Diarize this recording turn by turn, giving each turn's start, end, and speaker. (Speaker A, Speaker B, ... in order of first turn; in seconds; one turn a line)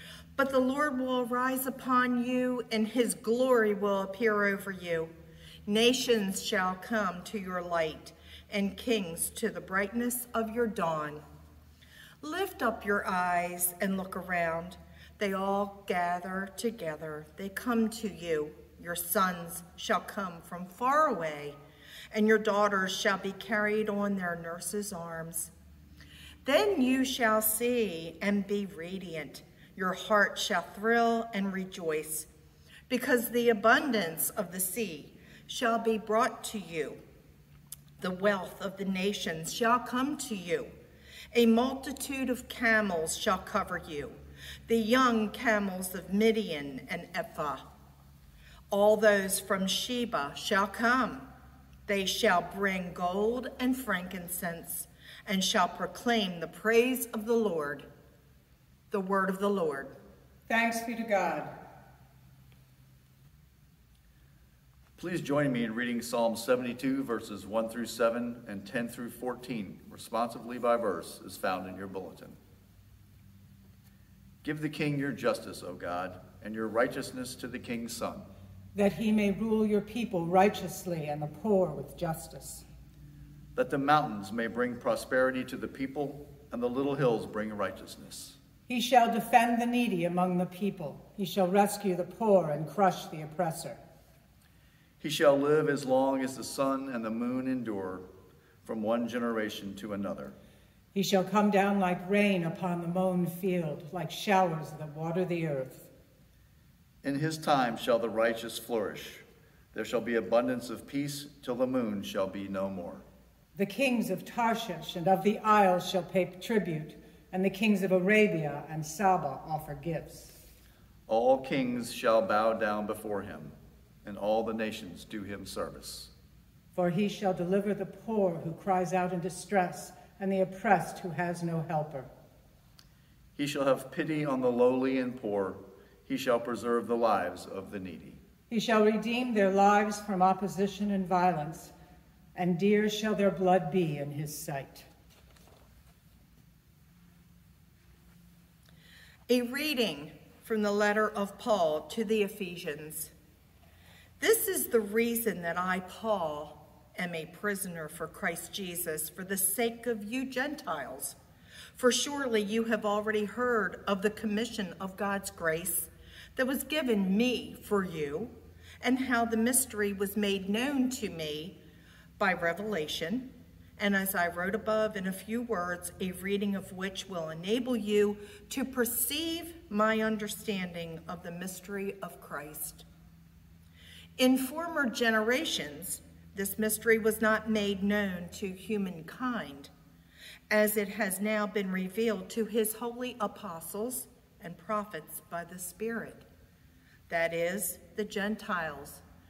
Speaker A: 0.4-5.1
Speaker A: 5.7-11.2
Speaker A: 12.2-21.6
Speaker A: 22.1-25.5
Speaker A: 26.4-32.3
Speaker A: 32.9-37.0
Speaker A: 38.0-40.7
Speaker A: 41.3-47.6
Speaker A: 48.7-51.3
Speaker A: 51.9-57.9
Speaker A: 58.9-59.9
Speaker B: 60.5-61.5
Speaker C: 65.0-72.4
Speaker C: 74.4-78.3
Speaker B: 78.7-82.7
Speaker C: 83.5-88.4
Speaker B: 88.7-93.8
Speaker C: 95.0-98.1
Speaker C: 98.6-100.4
Speaker B: 100.9-105.9
Speaker C: 107.0-113.1
Speaker B: 113.5-120.4
Speaker C: 121.1-126.1
Speaker B: 126.7-132.1
Speaker C: 133.4-138.2
Speaker B: 138.5-141.7
Speaker B: 142.3-144.9
Speaker A: 149.3-153.1
Speaker A: 154.2-161.2
Speaker A: 161.8-171.6
Speaker A: 172.2-182.8
Speaker A: 184.2-189.7
Speaker A: 190.5-196.2
Speaker A: 197.1-199.0